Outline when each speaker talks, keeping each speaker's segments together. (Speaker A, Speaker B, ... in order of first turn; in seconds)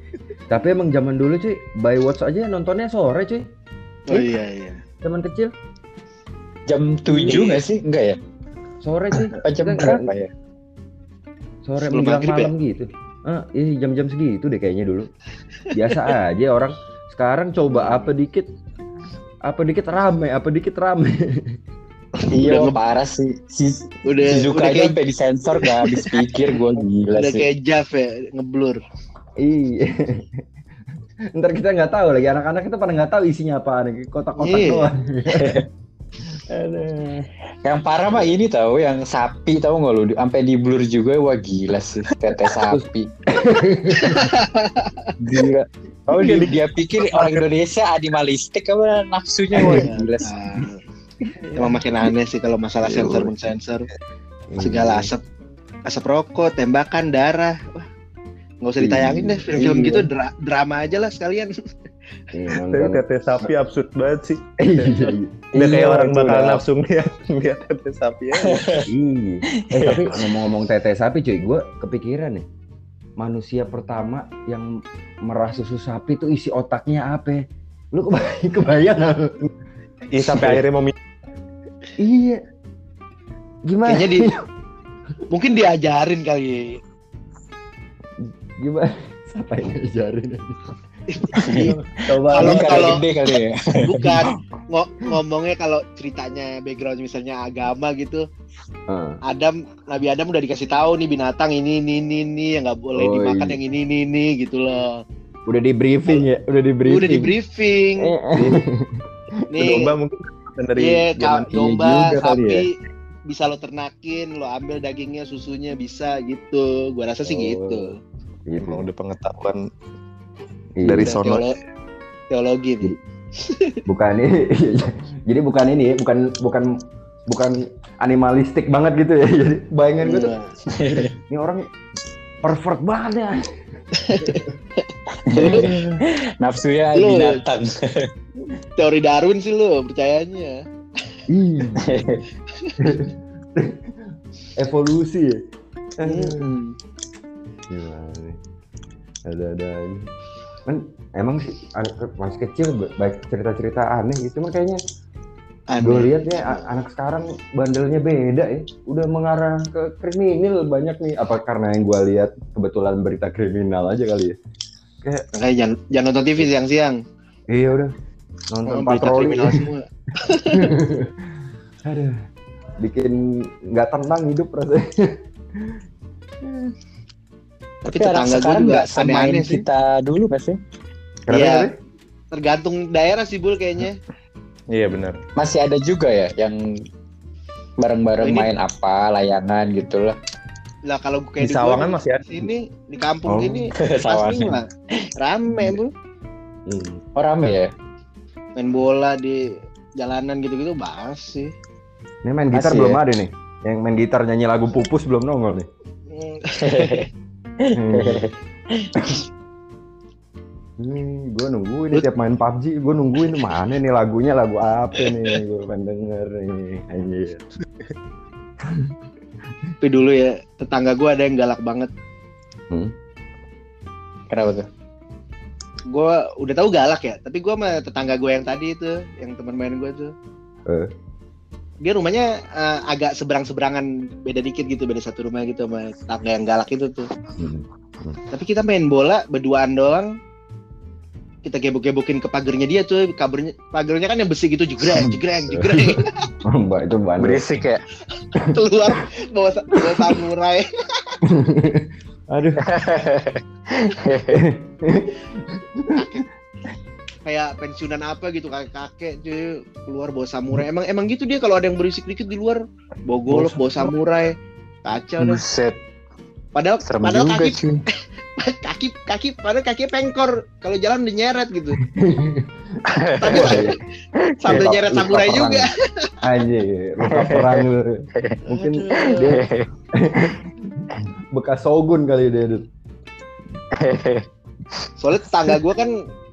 Speaker A: 0.5-3.5, 4.1-4.4, 5.0-5.5, 8.8-10.1, 11.7-15.1, 15.7-18.5, 19.4-21.4, 29.4-30.4, 31.3-35.6, 36.5-37.2, 42.6-44.3, 52.9-53.3, 54.5-55.1, 58.8-59.7, 62.3-63.0, 64.6-65.6, 68.8-72.5, 73.2-74.7, 75.2-79.4, 82.0-82.4, 83.7-84.5, 88.2-90.6, 91.3-92.9, 98.9-99.2, 103.0-103.6, 105.5-107.3, 108.0-109.0, 117.2-117.9, 118.5-118.9, 120.8-121.2, 123.9-126.7, 127.3-130.3, 130.9-131.7, 132.4-133.4, 134.2-134.5, 135.4-136.0, 141.3-142.2, 142.8-145.4, 146.0-146.5, 147.7-148.4, 149.3-150.1, 150.7-154.8, 155.8-164.4, 167.5-167.9, 168.5-169.6, 170.5-171.3, 171.8-172.2, 172.8-175.8, 176.4-176.7, 181.3-181.7, 193.3-193.7, 196.7-197.0, 202.2-205.7, 207.7-208.3, 210.8-217.4, 218.6-219.0, 237.4-238.2, 245.5-247.7, 248.4-248.6, 251.2-252.7, 254.3-256.3, 263.3-263.9, 271.8-273.8, 274.5-275.7, 276.2-282.7
Speaker B: 4.1-4.8, 7.2-7.6, 11.8-12.5, 22.2-22.8, 24.1-24.9, 25.6-26.2, 27.1-28.8, 34.4-34.9, 44.0-45.1, 49.6-50.8, 51.5-53.9, 54.6-55.2, 55.9-57.9, 58.6-61.5, 83.9-84.3, 85.3-86.8, 91.1-91.7, 92.3-93.0, 93.8-98.2, 99.3-105.0, 106.8-108.1, 109.5-109.9, 110.8-112.7, 113.3-118.0, 121.0-121.5, 122.3-123.8, 130.0-130.5, 134.0-135.7, 137.0-137.4, 138.8-140.6, 146.0-146.7, 155.7-156.8, 165.3-167.0, 168.7-170.7, 177.9-179.6, 181.3-181.7, 182.3-184.0, 188.2-188.5, 190.9-195.9, 198.6-199.4, 200.0-201.5, 206.1-207.1, 219.8-221.9, 225.9-230.1, 231.8-237.1, 238.3-240.1, 241.4-246.3, 248.4-251.2, 257.2-264.3, 264.9-265.4, 266.6-267.6, 268.4-271.8, 273.2-273.8, 274.4-276.1, 278.5-279.4, 285.0-285.9
Speaker C: 6.7-8.2, 9.4-10.3, 22.3-27.5, 35.3-35.7, 37.6-43.1, 45.2-50.3, 65.6-66.6, 68.5-68.9, 69.6-70.4, 91.4-94.3, 130.7-131.1, 135.3-135.7, 136.4-138.1, 141.8-142.2, 177.9-180.6, 185.4-186.6, 187.8-190.2, 193.8-194.6, 197.2-197.7, 202.5-203.0, 206.6-207.1, 207.6-209.2, 224.3-224.7, 247.2-247.8, 252.6-254.4, 265.2-265.8, 266.9-267.8, 272.9-273.6, 274.4-274.7, 277.1-277.6, 279.0-279.7, 283.8-284.3
Speaker D: 46.1-47.5, 59.6-60.0, 62.7-68.7, 80.1-81.0, 109.6-112.7, 118.6-119.7, 120.8-121.5, 184.7-185.2, 191.4-192.3